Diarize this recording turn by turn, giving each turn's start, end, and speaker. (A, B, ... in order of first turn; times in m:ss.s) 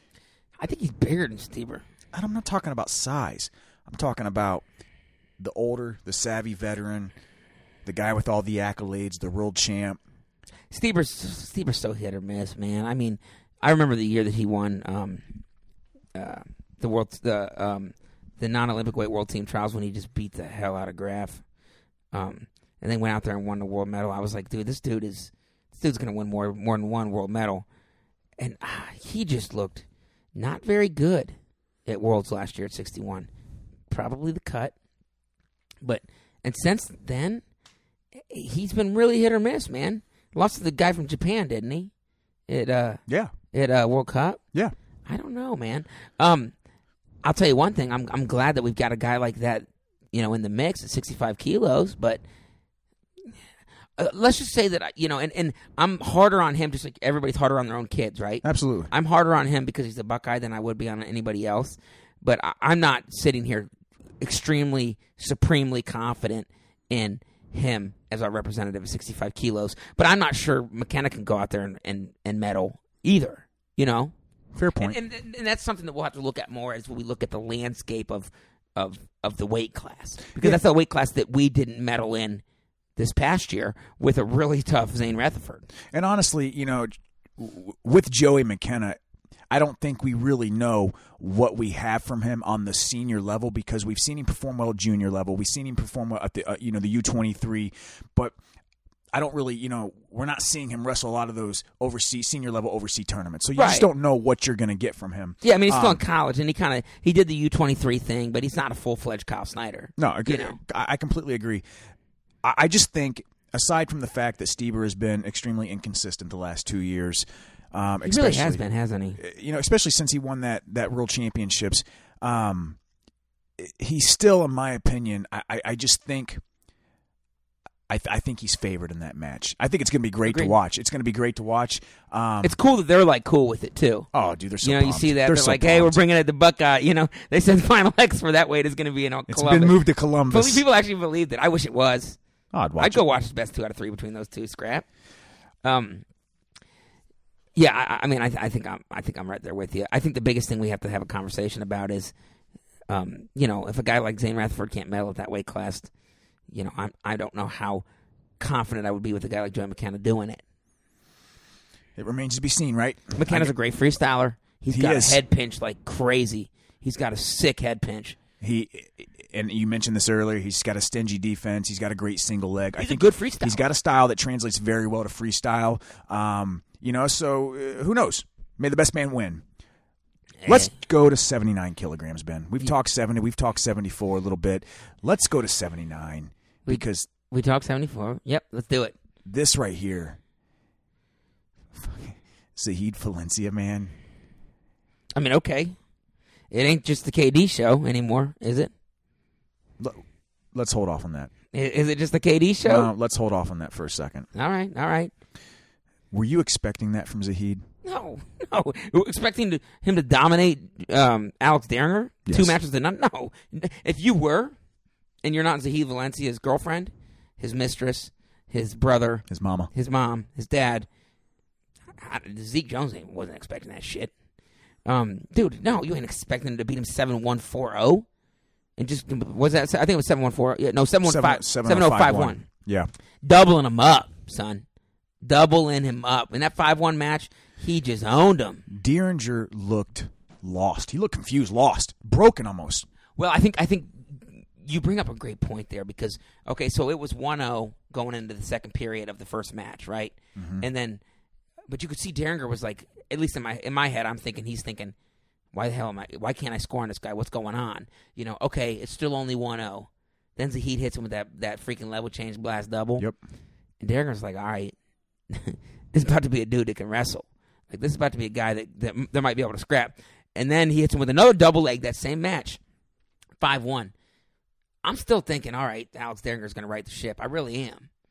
0:00.6-0:01.8 A
0:02.1-0:04.6 B
0:05.4-0:07.1 B
0:07.8-0:10.0 B
0:10.7-0:15.2 A
0:16.1-0:21.4 A
0:22.1-0:27.6 A
0:28.4-0:31.3 A
0:31.8-0:33.3 A
0:33.9-0:34.7 A
0:35.8-0:37.4 A
0:38.3-0:41.9 A
0:42.5-0:43.0 A
0:43.1-0:43.3 B
0:43.5-0:44.4 A
0:45.0-0:46.5 A
0:47.2-0:52.2 A
0:54.0-1:03.7 A
0:58.4-0:58.9 B
1:04.2-1:14.1 A
1:14.6-1:15.0 B
1:14.8-1:22.4 A
1:20.3-1:20.6 B
1:23.0-1:25.7 A
1:25.9-1:29.0 B
1:29.5-1:38.4 B
1:39.1-1:46.0 B
1:43.6-1:43.9 A
1:45.4-1:50.6 A
1:50.0-1:51.6 B
1:52.4-1:58.6 B
1:58.0-1:59.2 A
1:59.2-2:02.8 B
2:03.6-2:06.4 B
2:07.9-2:12.5 B
2:10.3-2:10.5 A
2:12.4-2:14.1 A
2:14.1-2:16.0 B
2:14.6-2:22.2 A
2:19.3-2:20.6 B
2:22.5-2:23.0 B
2:22.8-2:24.8 A
2:25.6-2:26.0 A
2:27.6-2:32.1 A
2:32.9-2:35.9 A
2:36.5-2:37.8 A
2:38.4-2:40.4 A
2:42.0-2:43.5 B
2:43.2-2:48.2 A
2:44.7-2:45.2 B
2:48.4-2:59.4 B
2:52.8-2:53.6 A
3:00.4-3:00.7 A
3:00.4-3:07.1 B
3:06.7-3:08.9 A
3:09.2-3:10.2 B
3:11.7-3:13.9 B
3:15.1-3:15.8 A
3:16.5-3:18.7 A
3:19.8-3:21.3 B
3:21.5-3:22.9 A
3:22.6-3:24.3 B
3:24.3-3:25.1 A
3:26.1-3:27.6 B
3:27.8-3:34.5 A
3:32.2-3:32.6 B
3:35.2-3:40.9 A
3:39.3-3:39.7 B
3:42.0-3:44.1 A
3:44.8-3:48.0 A
3:48.8-3:52.4 A
3:51.0-3:52.9 B
3:53.2-3:54.6 A
3:55.2-3:58.6 A
3:58.7-4:02.8 B
4:03.2-4:11.0 A
4:10.4-4:10.6 B
4:11.7-4:14.9 A
4:15.5-4:23.0 A
4:23.8-4:24.7 A
4:25.3-4:32.6 A
4:33.4-4:33.9 A
4:34.8-4:37.9 A